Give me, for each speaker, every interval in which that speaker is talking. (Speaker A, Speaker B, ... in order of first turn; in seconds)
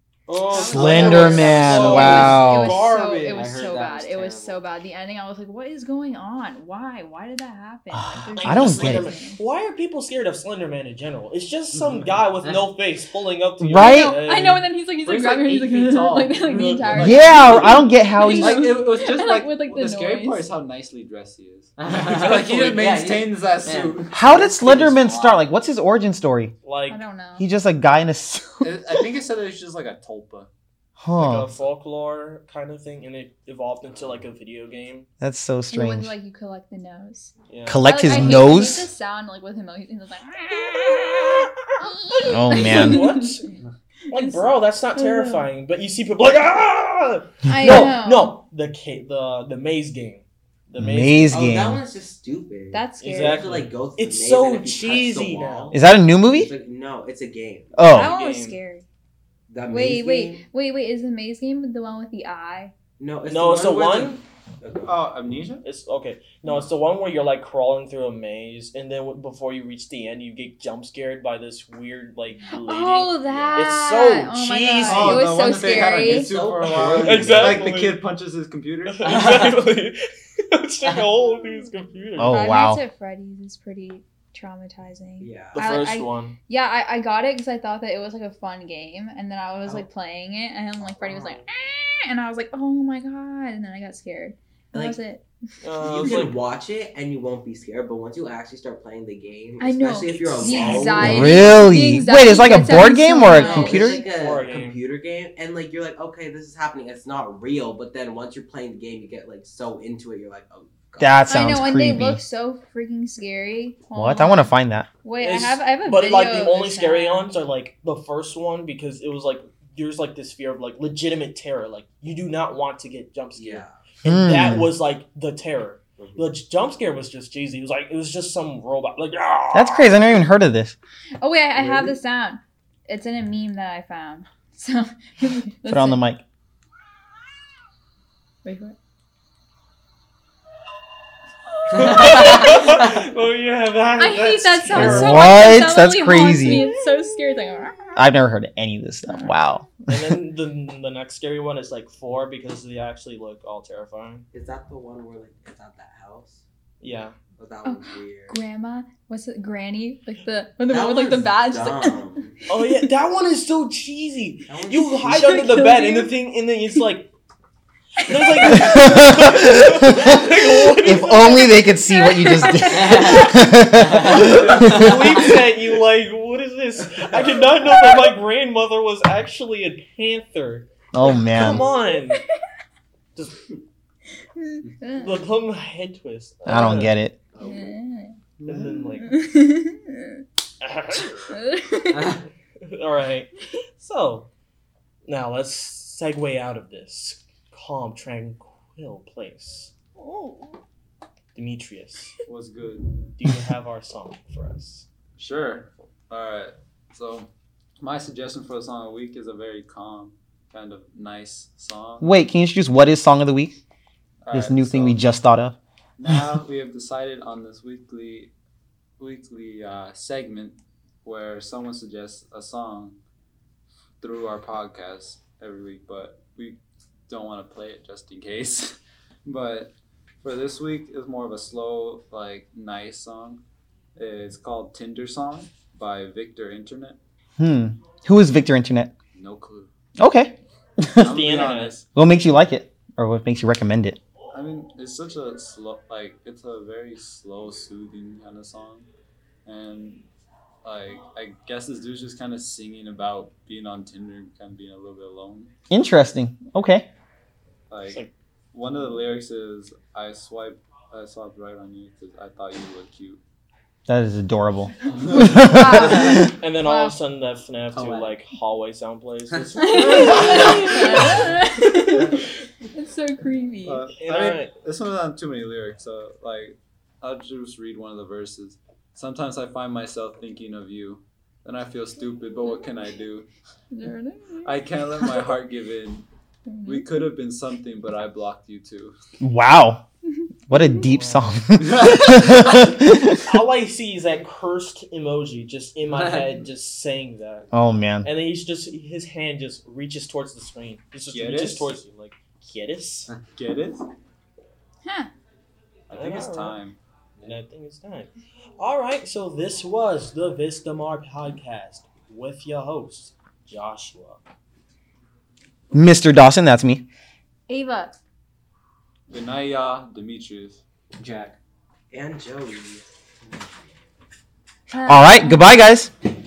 Speaker A: 0.3-3.6, 8.4-14.7, 16.5-17.1, 26.6-27.0, 31.2-35.1, 37.5-38.3, 42.5-43.5, 44.1-51.4, 53.0-55.8, 57.9-58.6, 63.3-64.2, 65.6-75.2, 76.8-78.0, 78.9-80.0, 80.5-82.5, 85.5-86.4, 95.6-96.4, 103.6-104.8, 115.2-129.9, 141.7-145.4, 149.9-154.2, 156.8-157.2, 162.5-167.1, 168.0-171.5, 174.0-182.2, 183.2-183.4, 184.9-187.0, 188.4-189.2, 190.6-191.3, 192.7-194.3, 195.1-199.7, 201.3-202.2, 203.2-204.9, 241.0-241.8, 257.9-258.1, 266.3-270.3, 274.0-274.5, 290.8-291.5, 292.8-297.5, 298.0-303.1, 305.9-306.6, 307.2-314.2
Speaker B: 0.5-9.4, 13.8-20.5, 26.9-27.5, 35.7-37.3, 37.9-43.5, 44.1-45.5, 47.5-48.4, 52.7-53.5, 57.9-58.9, 59.7-62.7, 72.5-76.4, 81.2-81.7, 82.3-95.2, 99.6-104.0, 111.3-114.5, 115.0-117.3, 131.2-136.0, 138.4-138.8, 141.7-142.6, 144.0-148.0, 149.1-149.5, 157.6-162.0, 165.1-166.2, 168.3-168.9, 171.1-173.3, 181.5-182.2, 184.4-185.1, 187.4-188.2, 188.9-190.2, 191.3-192.2, 200.0-200.5, 265.1-267.0, 269.6-272.2, 272.8-273.9, 283.7-285.3, 286.5-286.9, 304.9-305.1, 317.5-318.0, 324.7-325.7
Speaker C: 0.6-2.8, 7.9-9.2, 13.6-14.2, 16.9-18.8, 24.1-26.6, 27.4-28.9, 31.0-31.5, 35.2-36.1, 37.7-38.9, 42.3-43.1, 47.6-48.0, 50.8-51.8, 55.7-56.5, 57.8-58.1, 82.2-82.8, 100.9-104.0, 111.0-112.2, 113.9-114.9, 124.0-124.7, 129.5-130.8, 135.7-136.2, 144.7-146.7, 148.0-149.8, 168.5-169.9, 170.8-174.9, 180.9-181.6, 186.5-187.2, 212.0-213.6, 214.3-215.6, 237.4-238.9, 240.0-241.2, 241.9-244.0, 255.7-256.9, 263.9-266.3, 289.2-289.9, 290.5-293.2, 297.5-298.1, 315.7-316.9, 324.9-325.9
Speaker D: 3.3-4.7, 12.4-12.7, 21.8-25.4, 73.3-73.6, 142.3-142.9, 172.7-174.2, 191.9-192.2, 265.8-266.2, 267.7-268.2, 295.9-296.4, 321.0-321.4
Speaker E: 15.0-24.3, 28.6-30.5, 64.8-65.7, 74.8-79.4, 188.4-188.8, 202.3-202.9, 205.2-212.1, 214.2-215.1, 216.0-218.3, 219.0-223.0, 224.0-233.4, 234.0-237.0, 239.1-239.7, 241.0-241.9, 244.3-248.9, 249.4-250.1, 250.6-255.5, 257.7-263.2, 264.9-265.8, 269.7-271.1, 273.6-283.3, 284.4-286.1, 286.6-288.9, 291.5-292.6, 301.1-301.8, 303.3-303.9, 305.9-306.8, 319.1-320.6
Speaker F: 51.3-57.8, 59.5-60.5, 63.0-65.0, 75.8-77.7, 85.2-85.7, 90.8-91.5, 94.7-95.0, 95.8-101.7, 103.3-111.3, 123.3-123.8, 126.0-126.4, 131.6-132.0, 154.3-156.4, 157.4-158.4, 160.7-162.4, 164.5-165.4, 187.4-187.7, 321.9-323.7